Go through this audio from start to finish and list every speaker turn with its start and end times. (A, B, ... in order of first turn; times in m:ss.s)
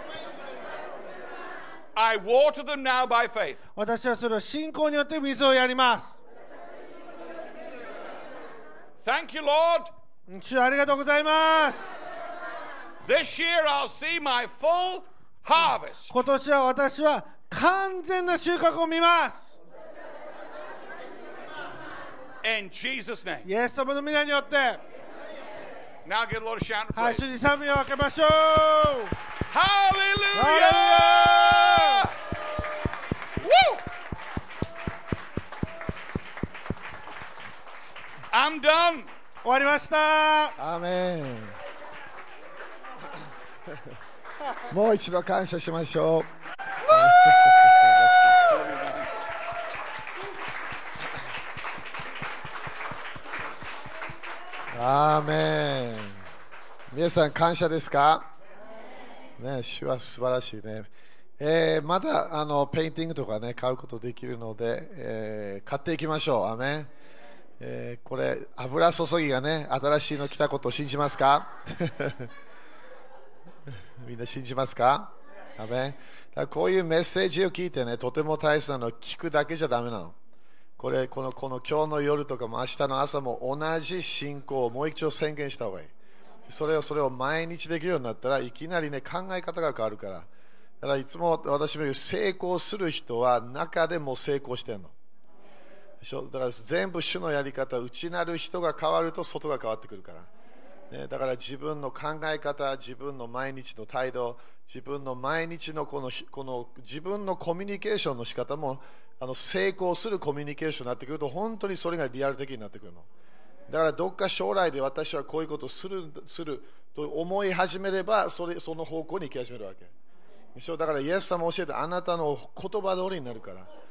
0:02.0-0:03.6 A
0:03.8-0:06.2 B
0:09.0-0:09.9 A
0:10.3-0:11.9 B
0:13.0-0:16.1 A
0:16.1-0:19.6 B
0:22.4-0:23.5 A
0:23.4-0:24.8 B
0:26.0-0:27.2 A
0:27.0-0:29.2 B
0:29.5-0:32.1 A
0:30.3-0:32.1 B
0:33.4-0:33.8 A
0:38.3-0:39.1 A
0:39.4-0:40.6 B
0:40.6-0:41.6 C
0:44.7-0:46.3 C
0:46.9-0:48.6 C
0:48.5-0:49.1 A
0:54.7-0:56.3 C
0:56.9-0:58.3 C
0:59.4-1:06.9 C
1:07.6-1:12.3 C
1:14.0-1:20.2 C
1:20.8-1:25.9 C
1:26.5-1:30.3 C
1:30.8-1:34.9 C
1:36.0-1:40.3 C
1:40.9-1:53.1 C
1:53.7-1:59.9 C
2:00.6-2:03.7 C